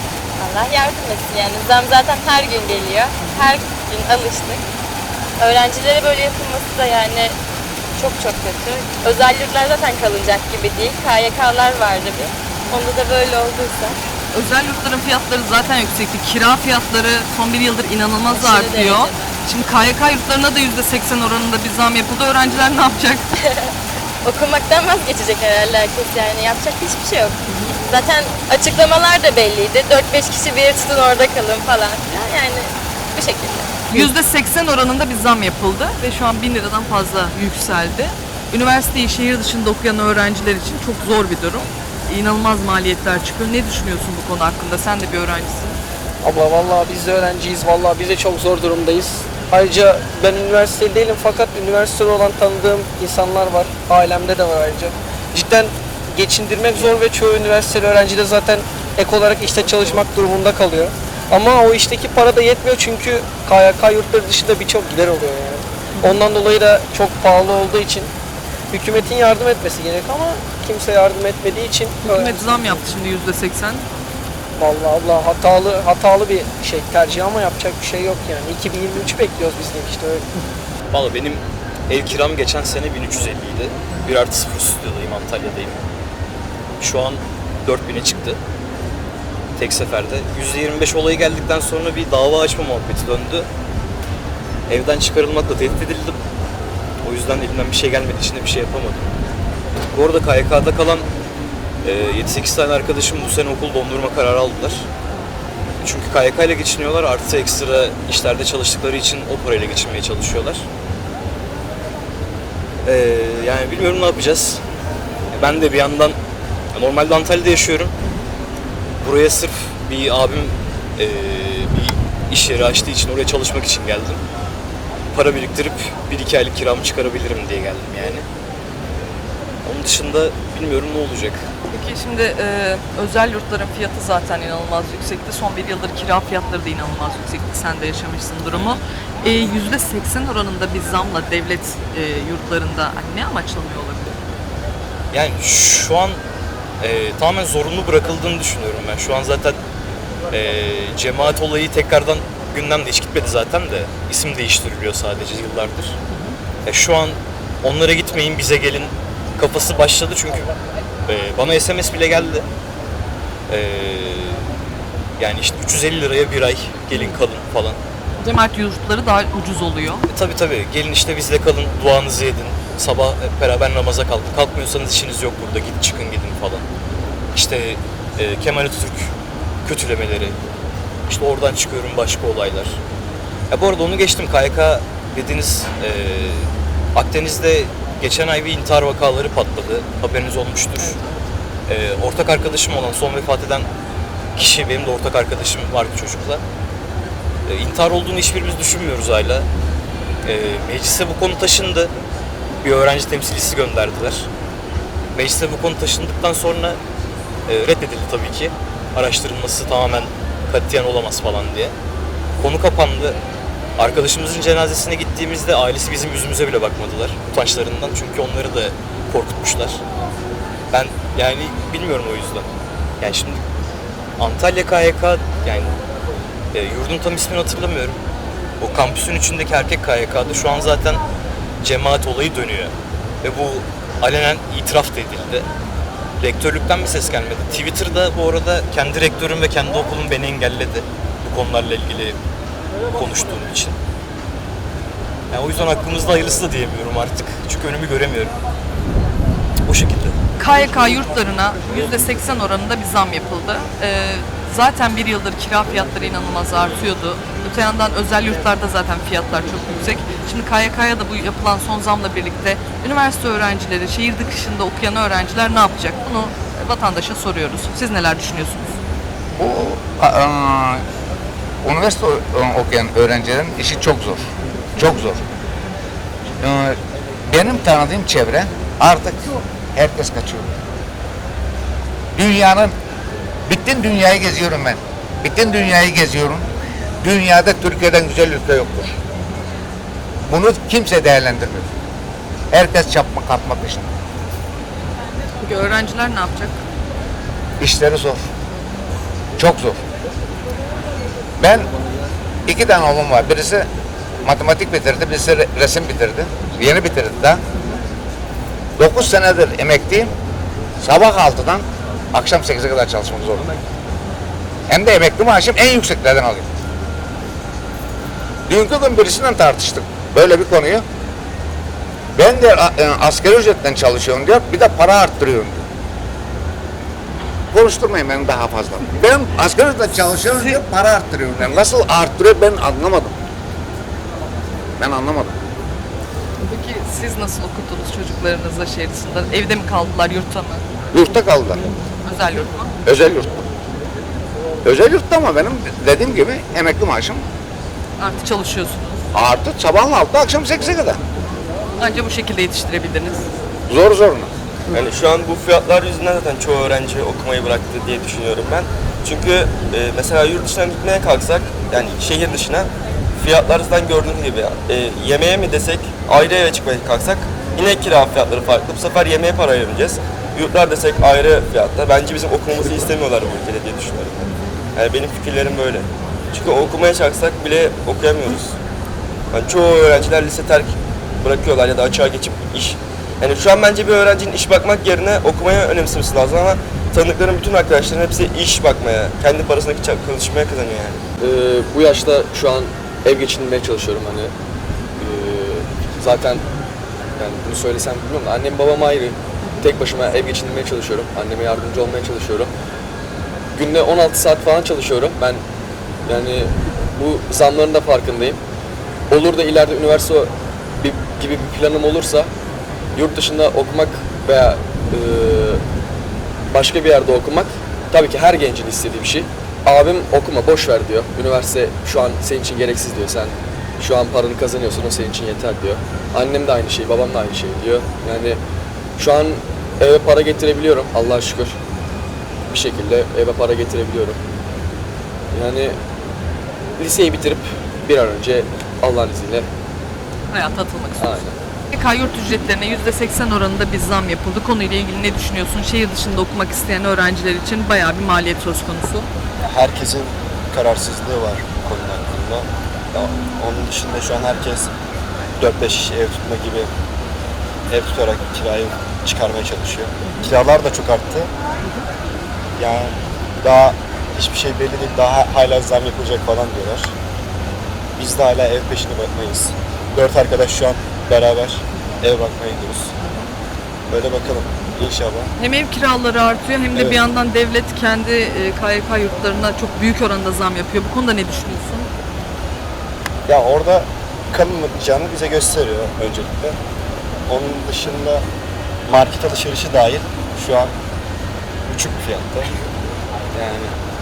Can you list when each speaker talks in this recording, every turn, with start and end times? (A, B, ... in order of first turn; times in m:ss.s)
0:00.4-0:04.6 A
0:05.4-0:07.4 A
0:08.0-0:14.0 A
0:14.3-0:23.2 B
0:18.3-0:19.2 A
0:23.4-0:23.7 A
0:24.2-0:33.8 A
0:33.9-0:45.8 B
0:46.2-1:08.1 C
1:08.7-1:12.4 C
1:12.0-1:13.8 B
1:14.6-1:20.2 C
1:20.9-1:25.8 D
1:26.8-1:28.4 D
1:29.6-1:33.5 D
1:34.7-1:36.2 D
1:37.0-1:39.1 D
1:39.9-1:41.1 D
1:41.8-1:44.9 D
1:45.8-1:50.6 D
1:52.8-1:54.6 D
1:55.3-1:56.2 D
1:56.7-1:57.9 D
1:59.0-2:04.2 D
2:05.1-2:08.2 D
2:09.6-2:11.5 D
2:11.7-2:24.2 B
2:25.1-2:26.2 D
2:26.8-2:29.6 D
2:30.3-2:36.0 D
2:36.6-2:40.5 D
2:41.1-2:42.4 D
2:43.5-2:44.5 D
2:45.2-2:47.8 D
2:48.2-2:50.0 B
2:50.1-2:56.6 D
2:57.3-2:59.1 D
2:59.6-3:00.3 D
3:01.1-3:02.8 D
3:03.5-3:11.0 D
3:11.7-3:13.7 D
3:14.3-3:16.4 D
3:17.4-3:19.4 D
3:20.2-3:21.9 D
3:22.6-3:24.3 D
3:25.1-3:26.8 D
3:27.5-3:31.7 D
3:32.4-3:33.2 D
3:33.8-3:39.8 D
3:40.7-3:43.4 D
3:44.2-3:45.8 D
3:46.5-3:48.0 D
3:48.6-3:51.0 D
3:51.6-3:55.5 D
3:56.2-4:02.2 D
4:02.9-4:03.8 D
4:05.3-4:08.3 D
4:09.6-4:10.2 D
4:10.4-4:28.8 B
4:29.4-4:30.8 E
4:31.6-4:34.2 E
4:34.8-4:35.2 E
4:36.4-4:36.8 E
4:37.3-4:40.4 E
4:42.2-4:42.7 E
4:43.5-4:46.4 E
4:47.0-4:48.9 E
4:50.3-4:51.7 E
4:52.5-4:53.8 E
4:55.4-4:56.6 B
4:57.6-4:58.2 E
4:59.4-4:59.8 E
5:01.4-5:01.7 E
5:02.5-5:03.6 E
5:04.2-5:07.4 E
5:08.8-5:10.1 E
5:10.8-5:13.5 E
5:14.7-5:16.4 E
5:18.5-5:20.8 E
5:22.2-5:25.6 E
5:27.5-5:33.1 E
5:34.8-5:35.3 E
5:36.4-5:40.6 B
5:40.9-5:41.6 E
5:42.0-5:42.7 B
5:42.8-5:43.4 E
5:44.6-5:47.2 E
5:48.0-5:49.0 B
5:49.1-5:51.0 E
5:51.8-5:53.2 B
5:53.7-5:54.3 E
5:54.7-6:18.6 F
6:19.3-6:31.0 F
6:31.2-6:34.3 G
6:35.0-6:36.5 G
6:37.2-6:42.5 G
6:43.5-6:45.4 G
6:46.0-6:48.4 G
6:49.1-6:52.3 G
6:52.9-6:55.6 G
6:56.5-7:08.4 G
7:09.0-7:11.6 G
7:12.5-7:14.2 G
7:15.3-7:15.8 G
7:16.8-7:19.5 G
7:20.3-7:21.2 B
7:21.0-7:21.4 G
7:21.7-7:29.1 B
7:29.4-7:34.7 H
7:35.4-7:36.7 H
7:37.7-7:41.3 H
7:42.6-7:46.9 H
7:48.0-7:52.9 H
7:53.9-7:55.3 H
7:55.4-8:01.9 B
8:03.3-8:06.6 H
8:07.3-8:08.2 H
8:08.9-8:10.8 H
8:11.7-8:12.5 H
8:13.3-8:13.8 H